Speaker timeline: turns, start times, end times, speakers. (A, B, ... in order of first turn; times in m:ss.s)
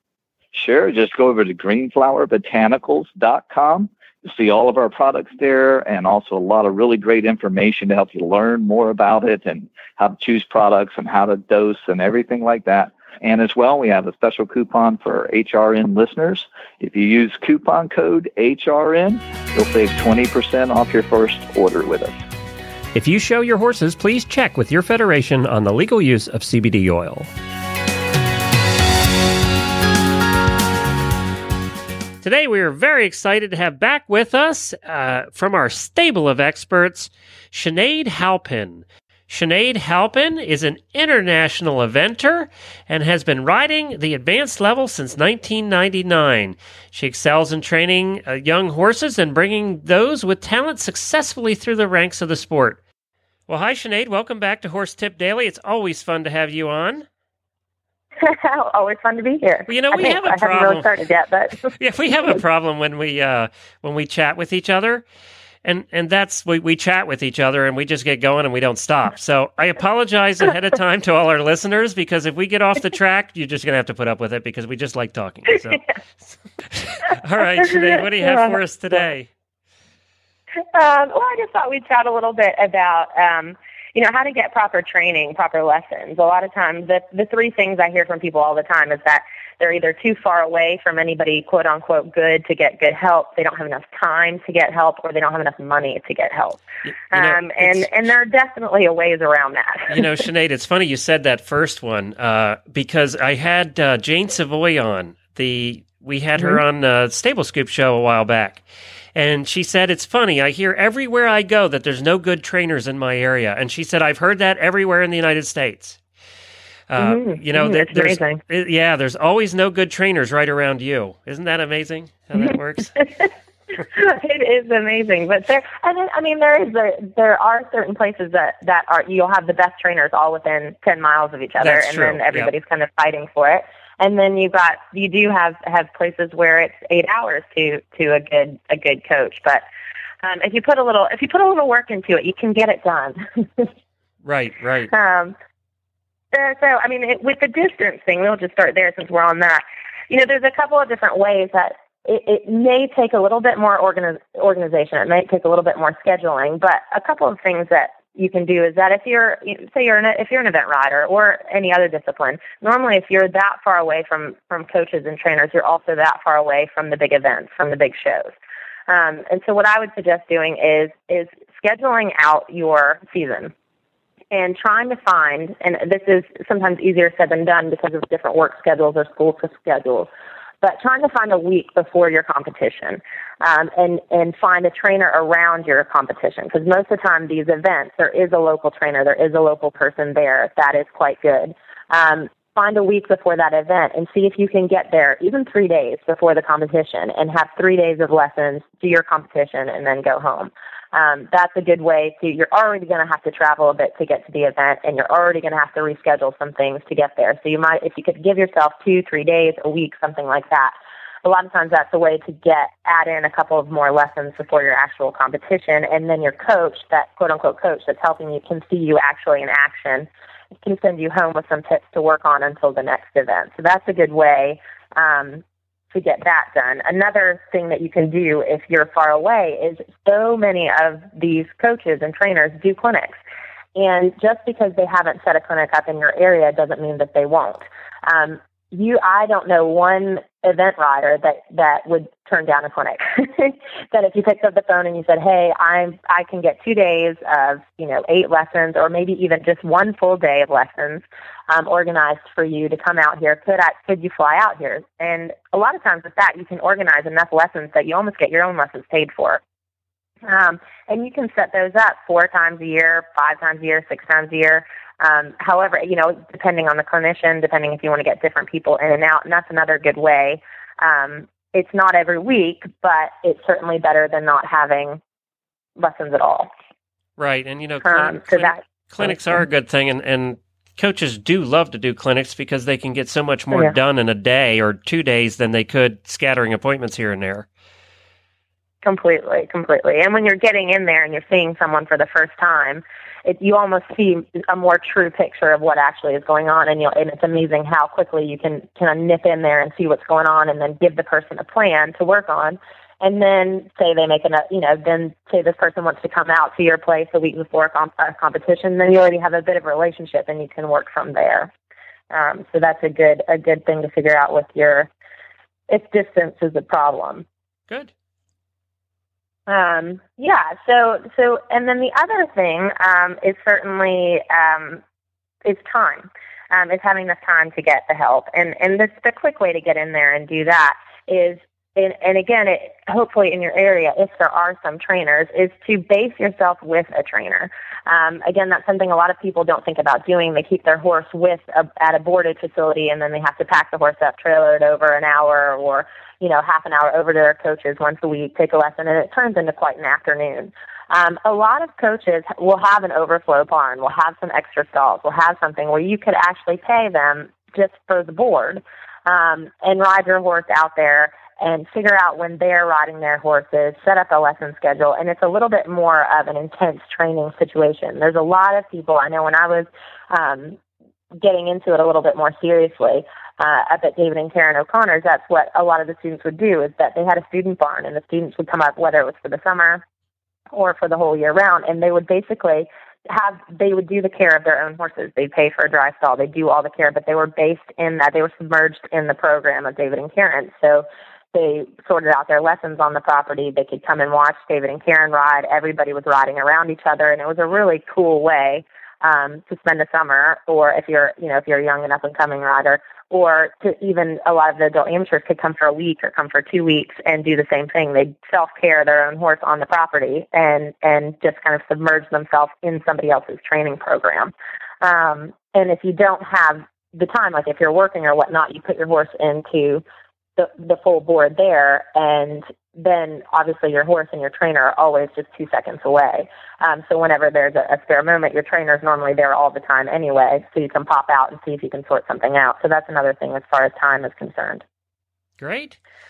0:00.5-0:22.2 A
0:22.9-0:27.3 B
0:32.2-0:52.8 B
0:53.5-0:57.1 B
0:58.2-1:01.8 C
0:59.7-1:00.9 B
1:01.8-1:05.1 B
1:05.6-1:19.3 B
1:17.6-1:19.1 C
1:20.7-1:40.1 C
1:37.1-1:37.9 B
1:39.9-1:48.6 B
1:46.4-1:46.6 C
1:49.2-1:56.0 B
1:56.9-2:02.9 B
1:57.0-1:58.4 C
2:03.0-2:19.6 C
2:11.6-2:12.5 B
2:20.2-2:23.7 C
2:24.2-2:24.9 B
2:24.9-2:25.4 C
2:26.3-2:48.4 C
2:48.9-2:53.5 C
2:54.3-3:00.1 C
3:00.6-3:40.1 C
3:40.6-3:53.2 C
3:53.8-4:19.4 C
4:20.3-4:35.0 C
4:35.8-4:36.5 C
4:37.2-4:47.5 B
4:37.8-4:39.4 C
4:48.8-5:11.5 C
5:12.1-5:14.9 C
5:15.7-5:17.2 C
5:19.5-5:24.8 C
5:25.4-6:10.6 C
6:11.2-6:19.8 C
6:20.5-6:59.8 C
7:00.4-7:14.6 C
7:15.4-7:15.8 B